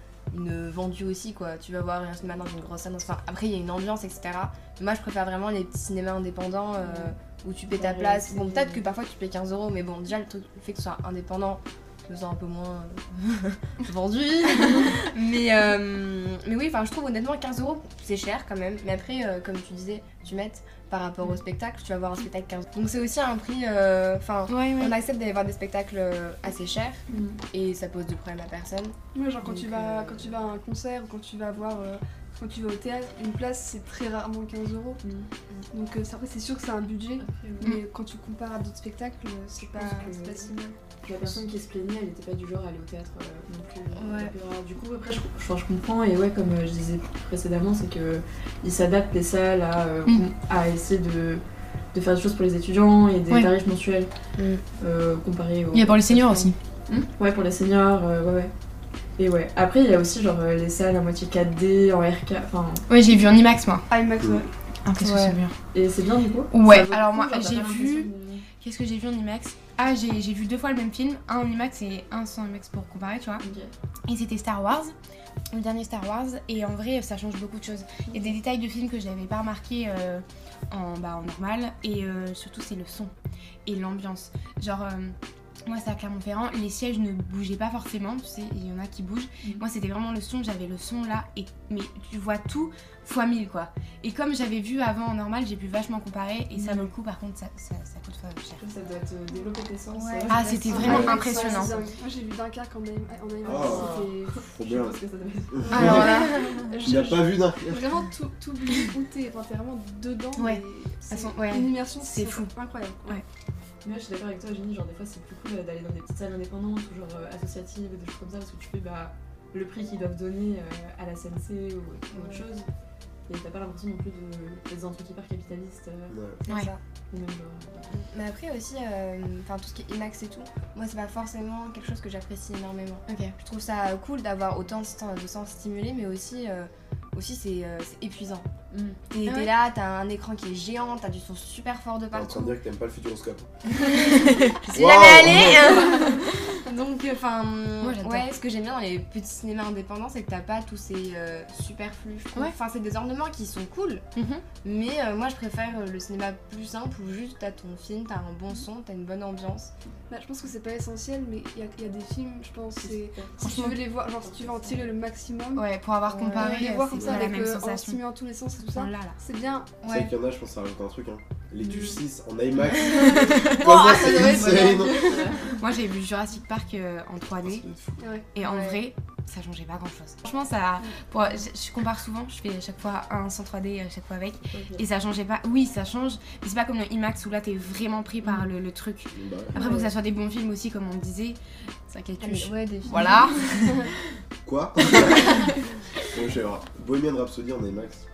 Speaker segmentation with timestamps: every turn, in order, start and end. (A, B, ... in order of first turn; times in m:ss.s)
0:00.3-0:30.0 A
0:06.8-0:07.1 B
0:07.7-0:08.8 B
0:24.5-0:24.9 C
0:27.1-0:27.4 B
0:29.1-0:35.0 D
0:29.5-0:30.2 B
0:35.0-0:35.3 B
0:35.7-0:40.8 D
0:37.2-0:37.8 B
0:39.7-0:40.5 B
0:41.0-0:54.1 B
0:44.0-0:44.3 A
0:54.4-0:54.6 A
0:54.8-0:58.5 B
0:55.7-0:56.6 C
0:59.2-1:02.9 B
1:02.9-1:03.9 C
1:03.9-1:04.5 D
1:04.2-1:04.4 E
1:04.8-1:05.5 C
1:05.0-1:05.4 A
1:05.7-1:08.5 B
1:06.5-1:13.4 C
1:13.4-1:13.7 B
1:14.1-1:14.9 C
1:15.5-1:23.1 C
1:23.6-1:38.6 C
1:36.5-1:36.9 B
1:38.6-1:41.9 B
1:39.9-1:40.5 A
1:40.3-1:41.7 C
1:40.7-1:44.5 D
1:40.7-1:41.2 E
1:43.4-1:46.5 B
1:43.4-1:44.0 E
1:44.5-1:45.0 E
1:45.5-1:46.2 E
1:45.7-1:46.6 A
1:45.7-1:53.2 D
1:46.0-1:46.7 C
1:46.8-1:47.9 E
1:50.4-1:52.5 C
1:53.8-2:02.7 B
2:02.1-2:02.4 A
2:03.3-2:06.2 B
2:06.1-2:06.4 E
2:06.4-2:06.8 A
2:07.1-2:07.9 B
2:07.9-2:18.5 A
2:13.1-2:13.3 C
2:18.7-2:19.0 B
2:19.1-2:22.6 A
2:19.2-2:19.5 C
2:22.1-2:23.5 E
2:24.0-2:24.6 C
2:24.1-2:34.0 A
2:24.7-2:25.9 E
2:27.8-2:28.3 C
2:34.2-2:34.4 C
2:34.6-2:39.7 A
2:40.1-2:49.7 D
2:42.7-2:44.9 B
2:43.4-2:43.8 C
2:45.5-2:48.0 C
2:46.4-2:46.6 A
2:46.9-2:47.2 E
2:48.7-2:49.2 C
2:49.8-2:50.1 A
2:49.8-2:55.2 E
2:53.0-2:54.2 C
2:53.6-2:54.9 A
2:53.6-2:55.7 B
2:55.6-2:57.6 C
2:57.4-2:58.0 E
2:58.0-2:58.3 D
2:58.3-3:13.9 C
2:58.4-2:58.8 A
3:04.5-3:04.8 B
3:09.1-3:09.6 E
3:09.5-3:09.9 B
3:12.2-3:13.7 A
3:14.4-3:15.5 E
3:14.8-3:16.0 C
3:16.1-3:18.0 E